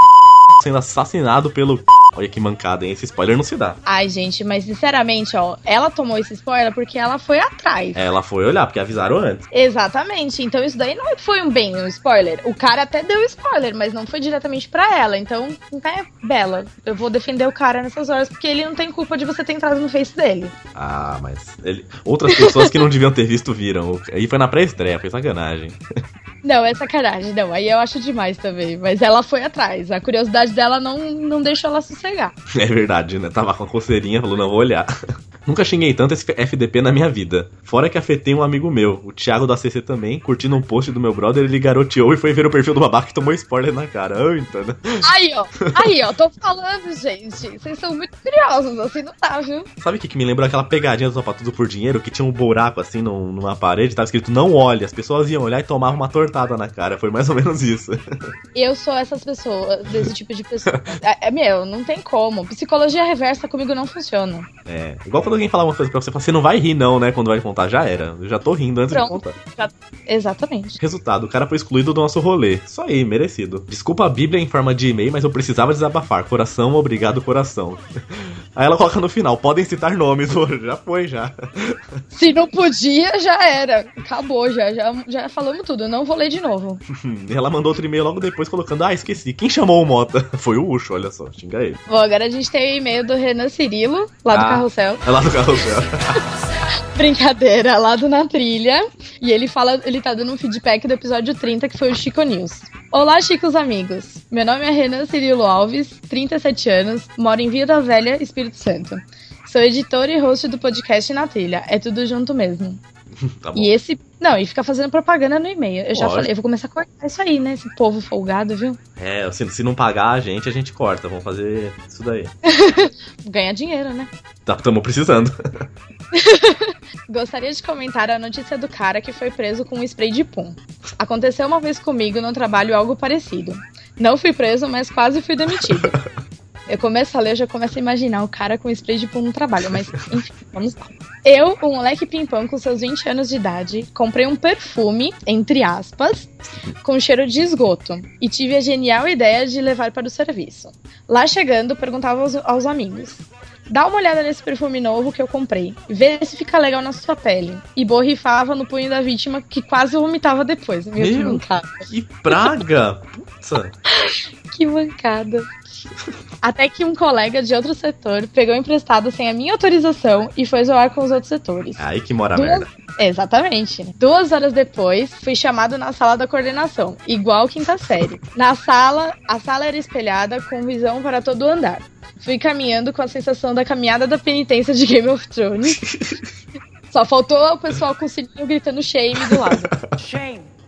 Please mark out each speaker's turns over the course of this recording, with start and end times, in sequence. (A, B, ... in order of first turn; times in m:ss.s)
0:00.6-0:03.8 A
0:03.8-0:08.0 B
0:07.9-0:09.4 A
0:09.5-0:20.5 B
0:20.7-0:25.8 A
0:22.3-0:22.8 B
0:26.4-0:32.3 B
0:32.5-0:34.9 A
0:35.4-0:45.9 A
0:45.0-0:49.7 B
0:49.8-0:58.0 A
0:58.5-1:04.5 B
1:00.7-1:00.9 A
1:04.7-1:09.4 A
1:08.9-1:10.8 B
1:10.8-1:17.8 A
1:18.6-1:21.8 A
1:22.1-1:26.8 B
1:26.9-1:31.8 A
1:31.9-1:35.0 B
1:34.3-1:35.9 A
1:36.9-1:52.8 B
1:53.2-1:53.7 A
1:53.6-1:58.8 B
1:55.9-1:56.3 A
1:59.0-2:02.3 A
2:02.4-2:04.1 B
2:04.4-2:05.3 A
2:06.1-2:15.9 B
2:15.6-2:16.0 A
2:16.7-2:26.3 B
2:26.8-2:41.9 B
2:41.0-2:43.7 A
2:44.5-2:45.5 B
2:46.4-2:51.8 B
2:51.8-2:52.7 A
2:52.3-3:05.8 B
3:05.8-3:06.2 A
3:06.9-3:09.7 B
3:09.3-3:09.9 A